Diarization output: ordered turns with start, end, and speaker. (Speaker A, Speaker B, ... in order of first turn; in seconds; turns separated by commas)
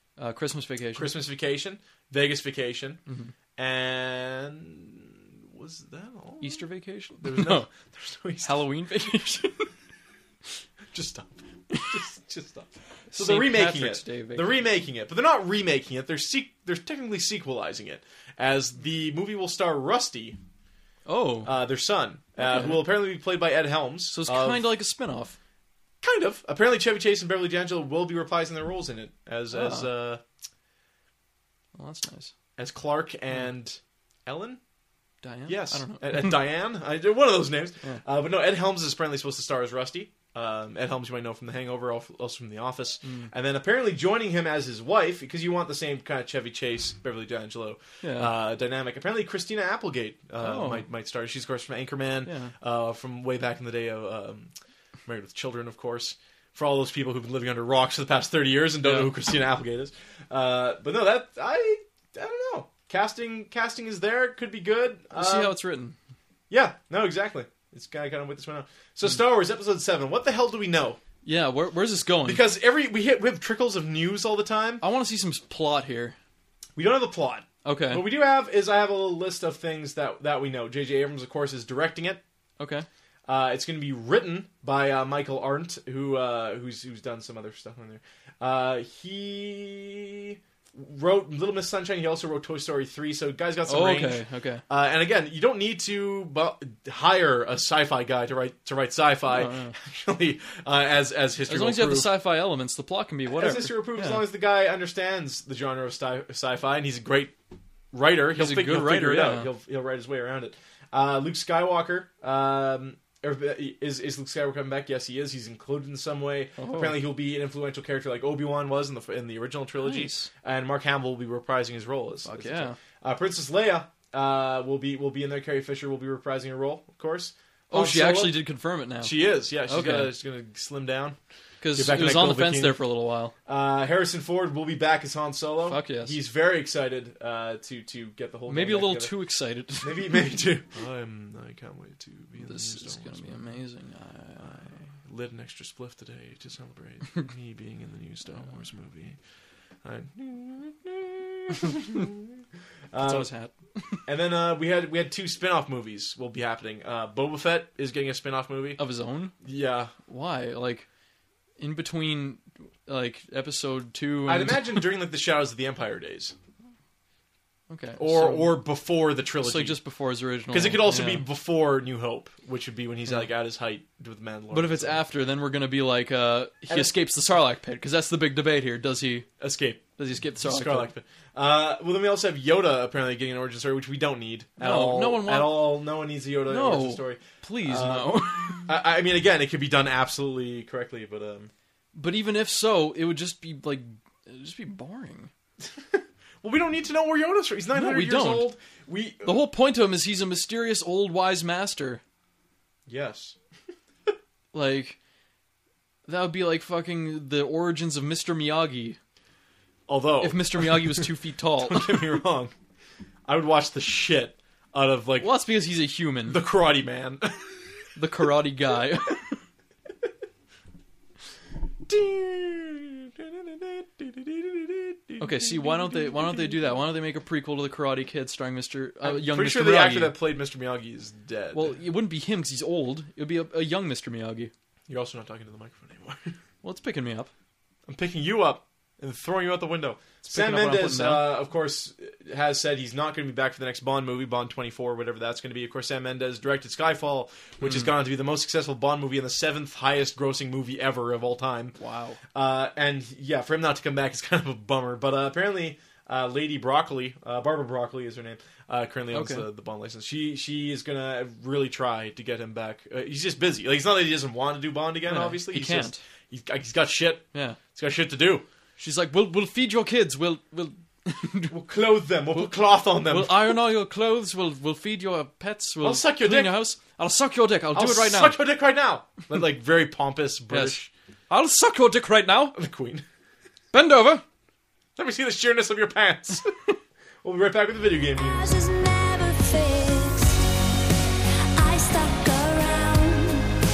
Speaker A: 0.2-1.1, Speaker B: 0.9-3.0, Speaker A: 3.1-3.3, Speaker B: 3.6-6.6, Speaker A: 6.4-7.7, Speaker B: 7.2-8.6, Speaker A: 8.4-9.7, Speaker B: 10.9-20.4, Speaker A: 11.7-12.0, Speaker A: 13.1-14.6, Speaker A: 21.1-21.5, Speaker B: 21.4-24.6, Speaker A: 22.4-22.8, Speaker A: 24.1-25.4, Speaker B: 26.0-30.2, Speaker A: 29.5-29.9, Speaker A: 31.7-32.3, Speaker B: 32.6-34.6, Speaker A: 35.2-36.4, Speaker B: 35.5-54.5, Speaker A: 43.0-43.3, Speaker A: 48.0-48.3, Speaker A: 50.4-50.8, Speaker A: 52.2-52.5, Speaker B: 55.0-65.5, Speaker A: 58.8-59.1, Speaker A: 65.1-66.0, Speaker B: 66.5-71.0, Speaker A: 71.2-72.4, Speaker B: 72.2-74.8, Speaker A: 74.8-76.2, Speaker B: 76.8-82.2, Speaker A: 77.6-78.0, Speaker A: 82.6-82.9, Speaker B: 83.3-102.1, Speaker A: 93.7-94.6, Speaker A: 99.3-99.7, Speaker A: 101.5-104.2, Speaker B: 103.3-107.3, Speaker B: 107.9-128.4, Speaker A: 108.3-109.5, Speaker A: 116.6-117.0, Speaker A: 119.8-120.3, Speaker A: 122.2-122.8, Speaker A: 127.7-130.1, Speaker B: 129.0-131.2, Speaker A: 131.6-133.3, Speaker B: 131.7-132.8, Speaker B: 133.4-139.1, Speaker A: 135.6-136.2, Speaker A: 138.5-140.2, Speaker B: 139.8-143.4, Speaker A: 142.4-144.8, Speaker B: 144.4-149.2, Speaker B: 149.8-152.3, Speaker B: 152.9-153.3, Speaker A: 153.0-154.0, Speaker B: 154.1-158.8, Speaker A: 158.8-159.3, Speaker B: 159.4-159.9, Speaker A: 160.1-160.9, Speaker A: 161.6-164.8, Speaker B: 164.3-166.3, Speaker A: 167.7-168.6, Speaker B: 168.0-169.8, Speaker A: 169.4-171.2, Speaker B: 170.5-175.0, Speaker A: 174.5-179.2, Speaker B: 176.7-176.9, Speaker B: 179.4-179.8, Speaker A: 180.0-180.9, Speaker B: 180.4-191.5, Speaker A: 184.6-185.8, Speaker A: 186.5-188.7, Speaker A: 191.9-195.3, Speaker B: 195.9-199.4, Speaker A: 197.7-198.5, Speaker A: 199.2-202.0, Speaker B: 202.9-203.3, Speaker A: 204.5-205.0, Speaker A: 206.1-209.0, Speaker B: 209.9-211.1, Speaker A: 210.2-212.1, Speaker B: 211.6-212.5, Speaker B: 213.3-215.3, Speaker A: 215.2-216.4, Speaker B: 216.3-217.6, Speaker A: 217.9-219.4, Speaker B: 221.8-226.6, Speaker A: 225.2-230.2, Speaker B: 229.0-231.8, Speaker A: 231.5-234.5, Speaker B: 234.9-236.3, Speaker A: 236.6-237.3, Speaker B: 237.9-251.8, Speaker A: 240.3-241.3, Speaker A: 247.6-247.9, Speaker A: 251.8-252.2, Speaker B: 252.3-268.4, Speaker A: 259.1-259.5, Speaker A: 265.1-266.0, Speaker A: 267.3-267.6, Speaker A: 268.8-271.6, Speaker B: 271.5-273.6, Speaker A: 273.1-278.4, Speaker B: 275.8-276.6, Speaker B: 277.7-280.9, Speaker A: 280.5-282.6, Speaker B: 282.5-283.0, Speaker A: 283.7-284.2, Speaker B: 285.0-286.5, Speaker B: 287.2-288.6, Speaker C: 288.1-290.9, Speaker C: 291.5-293.5